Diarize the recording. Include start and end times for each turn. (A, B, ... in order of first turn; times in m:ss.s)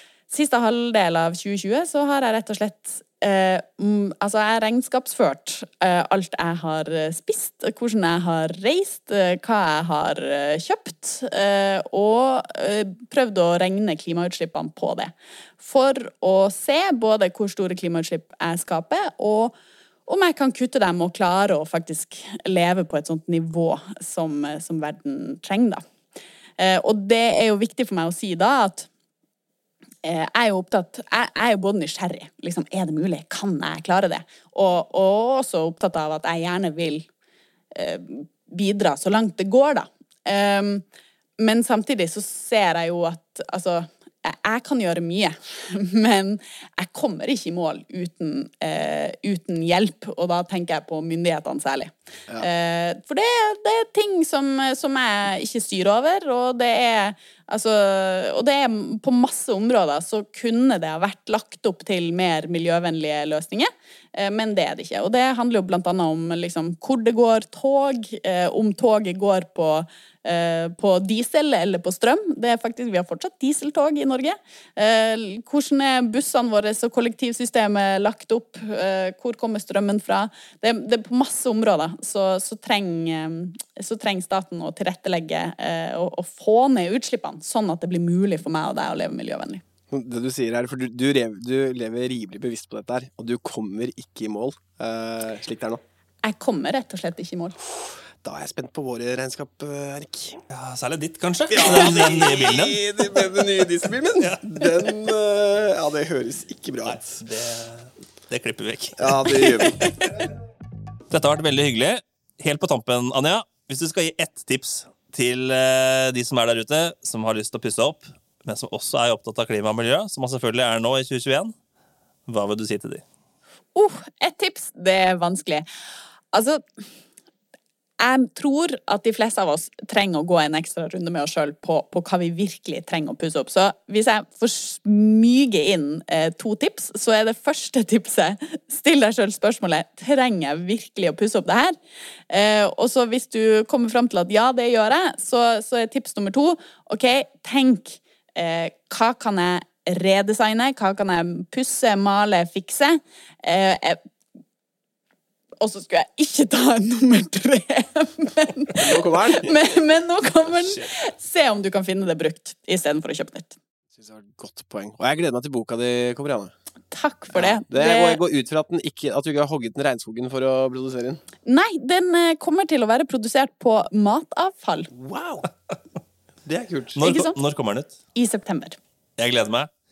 0:00.3-0:19.6 A
0:20.1-0:25.8 A
0:26.6-0:28.9 A
0:30.0-0:37.1 A
0:37.7-0:40.8 A
0:41.4-1:29.6 A
1:29.9-1:35.8 B
1:36.2-1:37.6 A
1:37.8-1:40.4 B
1:40.5-1:42.9 C
1:41.5-1:47.2 B
1:46.9-1:49.9 C
1:49.0-1:49.9 B
1:51.1-2:01.5 C
2:02.3-2:03.0 C
2:03.8-2:05.6 A
2:06.3-2:06.8 A
2:08.0-2:21.8 A
2:22.3-2:34.0 A
2:35.6-2:43.6 A
2:38.8-2:39.6 B
2:43.9-2:46.5 B
2:46.9-2:48.2 A
2:47.3-2:51.2 B
2:51.4-2:54.9 A
2:54.9-2:55.5 B
2:56.5-2:57.0 B
2:57.0-2:58.0 C
2:57.0-2:57.4 A
2:58.1-2:58.8 A
2:59.2-2:59.7 C